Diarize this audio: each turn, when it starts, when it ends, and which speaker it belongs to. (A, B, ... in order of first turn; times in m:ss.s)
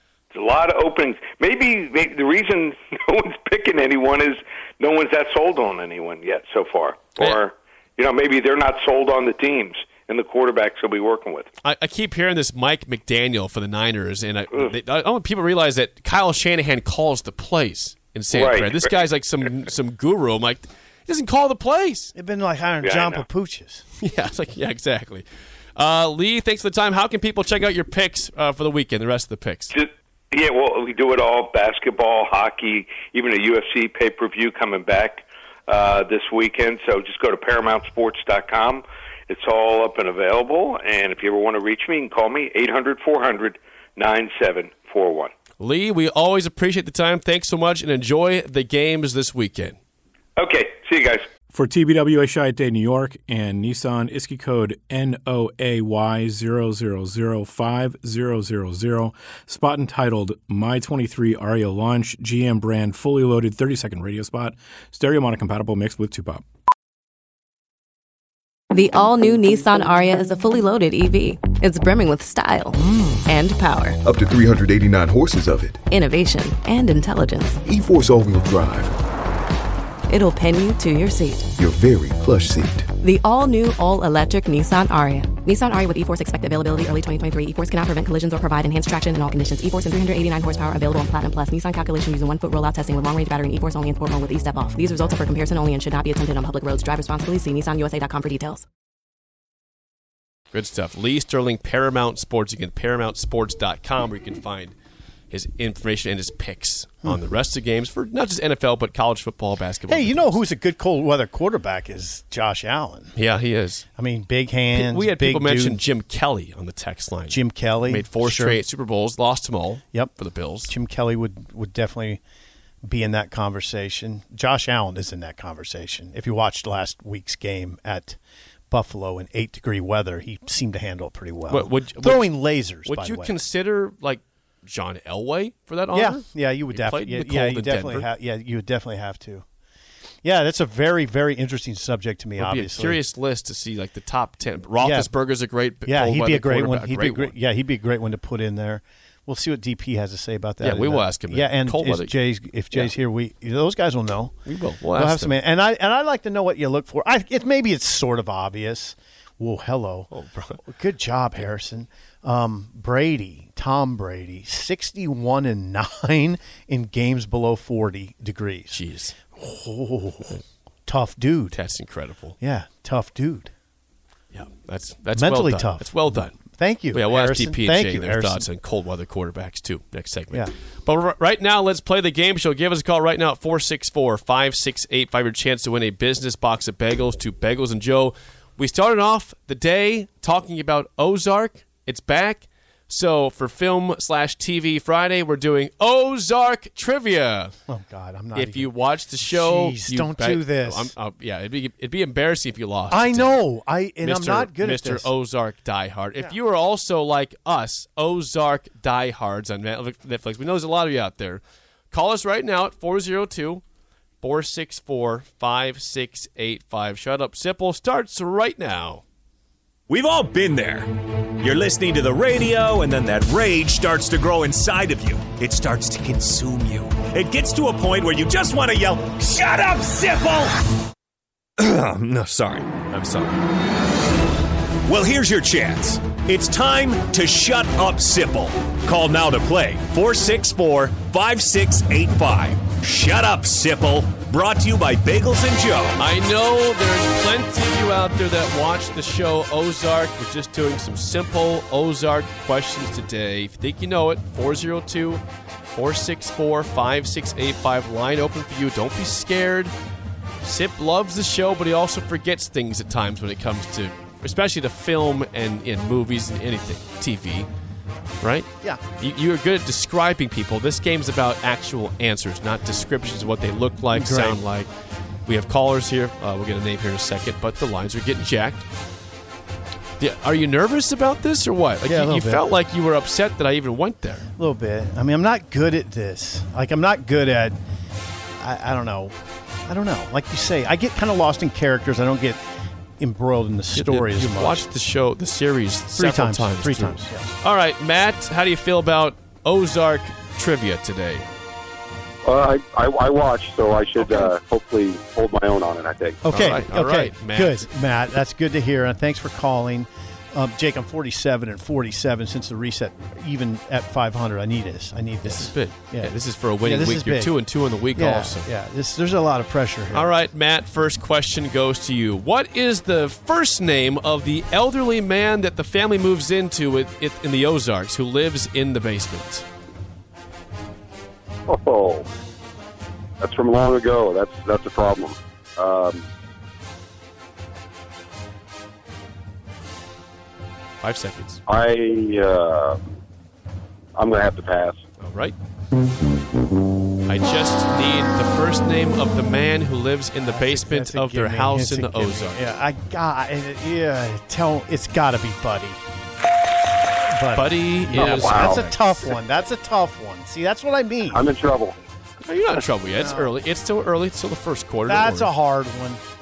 0:00.3-0:11.5 A
0:11.6-0:22.1 B
0:18.3-0:18.9 A
0:22.1-0:23.8 C
0:22.8-0:23.2 A
0:24.0-0:25.2 B
0:25.8-0:29.8 B
0:29.7-0:45.3 A
0:45.6-0:49.8 B
0:50.4-0:51.3 A
0:51.5-1:06.5 D
1:08.7-1:14.0 E
1:14.0-1:15.8 F
1:15.9-1:17.6 E
1:17.6-1:19.0 F
1:20.1-1:21.5 E
1:21.6-1:22.9 F
1:23.0-1:38.6 E
1:40.5-1:44.7 B
1:45.3-1:50.4 B
1:49.9-1:53.2 C
1:53.2-1:53.9 B
1:54.0-1:55.8 C
1:54.7-2:00.7 B
1:57.3-1:58.6 C
2:00.7-2:02.2 C
2:02.8-2:08.2 C
2:08.7-2:13.4 C
2:11.5-2:12.3 B
2:12.8-2:18.1 B
2:15.9-2:19.4 C
2:20.2-2:23.0 C
2:22.4-2:27.4 B
2:24.8-2:25.1 C
2:25.8-2:34.4 C
2:30.6-2:32.1 B
2:34.5-2:35.3 B
2:34.9-2:48.8 C
2:40.1-2:40.6 B
2:48.7-2:49.2 B
2:49.4-2:51.6 C
2:51.5-2:52.4 B
2:52.4-2:53.5 C
2:54.3-2:56.4 B
2:55.1-2:58.4 C
2:56.9-3:17.6 B
3:17.7-3:20.9 C
3:18.3-3:23.4 B
3:22.9-3:25.1 C
3:24.0-3:33.6 B
3:34.2-3:39.0 B
3:39.9-3:40.9 G
3:41.4-3:50.6 G
3:51.6-3:53.4 G
3:54.9-4:06.0 G
4:06.0-4:15.2 B
4:15.7-4:19.7 B
4:20.4-4:27.5 B
4:28.2-4:34.7 B
4:33.9-4:34.4 C
4:35.3-4:38.7 B
4:40.0-4:44.3 B
4:41.8-4:42.5 C
4:44.4-4:47.6 C
4:48.4-4:49.2 C
4:49.7-4:52.4 C
4:53.0-4:54.6 C
4:53.7-5:01.3 B
4:55.9-4:57.4 C
5:02.2-5:06.2 H
5:04.0-5:04.3 B
5:06.2-5:17.4 C
5:06.3-5:07.7 B
5:15.2-5:18.5 B
5:17.9-5:20.1 C
5:19.9-5:29.5 B
5:31.5-5:32.1 H
5:33.2-5:36.1 H
5:40.8-5:41.4 B
5:41.5-5:42.8 H
5:44.0-5:44.8 H
5:45.0-5:45.4 B
5:47.1-5:52.5 B
5:50.3-5:55.8 C
5:57.1-6:01.3 C
5:57.3-5:58.8 B
5:58.0-5:58.6 H
6:01.1-6:01.8 H
6:02.2-6:05.3 B
6:03.0-6:03.3 C
6:04.9-6:06.0 C